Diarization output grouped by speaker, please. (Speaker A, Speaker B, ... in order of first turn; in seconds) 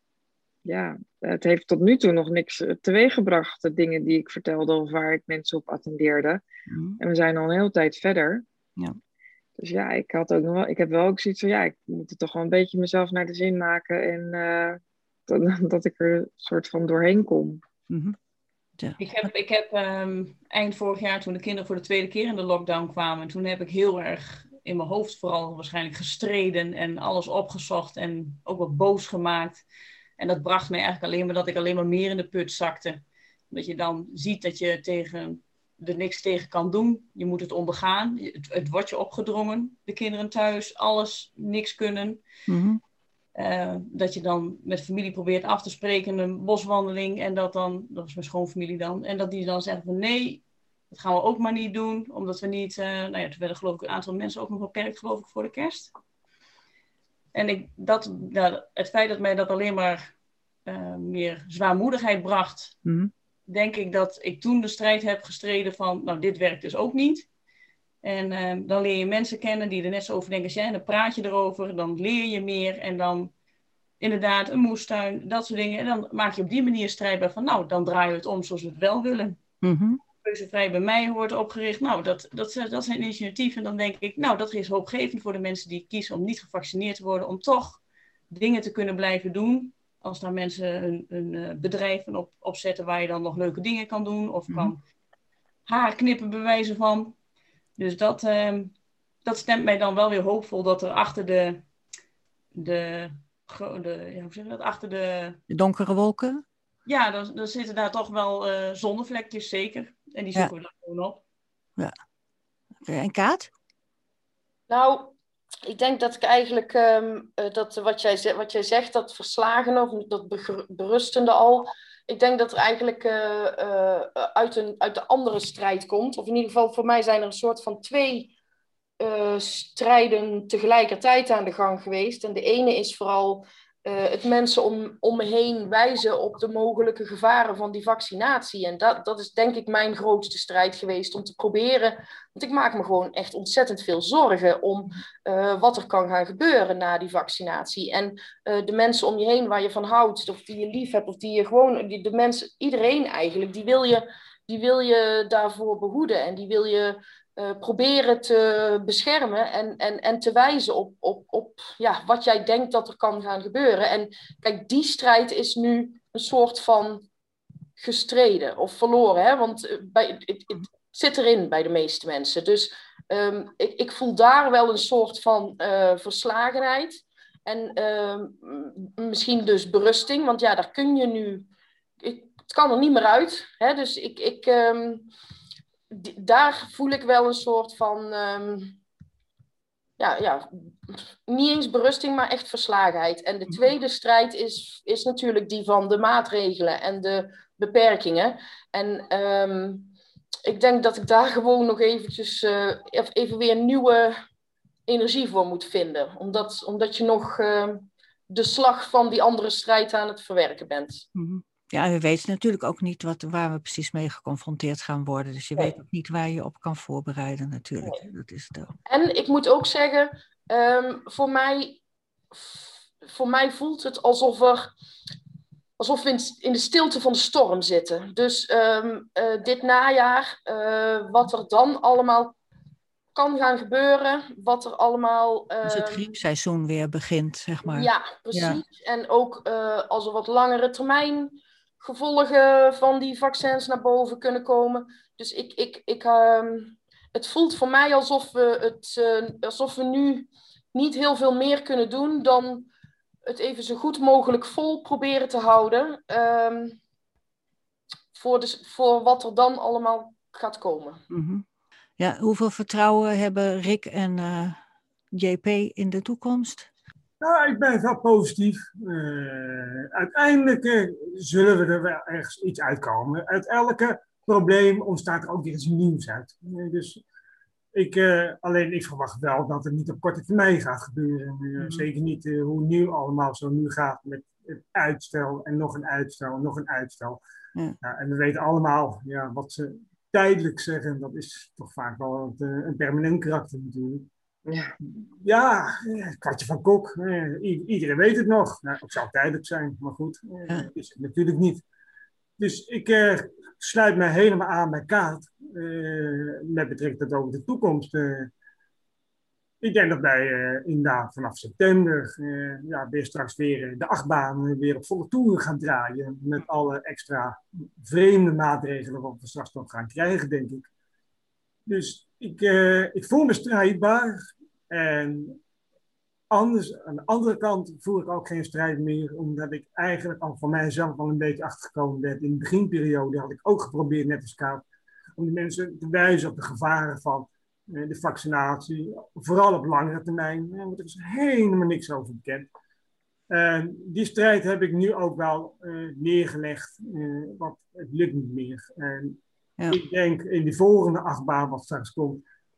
Speaker A: 0.7-6.4, 7.0-8.4, 9.6-17.6, 294.5-294.7
Speaker B: 6.7-7.0, 17.9-18.2, 42.5-42.8, 62.9-63.1, 79.6-80.0, 105.5-106.4, 112.8-113.5, 211.2-218.7, 235.7-238.6, 261.1-261.4, 262.0-264.6, 265.1-266.7, 281.6-281.9
Speaker C: 19.0-29.6, 30.2-42.2, 43.4-55.9, 57.3-60.1, 60.7-62.8, 63.5-67.3, 68.0-73.3, 74.0-79.4, 80.2-94.8, 95.7-97.2, 97.8-98.7, 99.2-101.6, 102.5-105.4, 106.9-111.2
Speaker D: 114.7-115.1, 115.7-128.3, 129.0-167.1, 167.8-181.5, 182.0-185.1, 185.9-188.8, 190.0-199.9, 200.4-204.2, 204.9-211.1, 218.9-221.8, 222.3-224.7, 225.8-232.4, 233.2-236.1, 237.7-252.7, 253.3-256.8, 258.1-261.0
Speaker E: 267.2-277.0, 277.7-287.2, 287.8-294.1, 295.2-301.6, 302.4-308.3, 309.6-320.7, 321.7-325.4, 326.3-334.6, 335.2-342.5, 343.3-352.2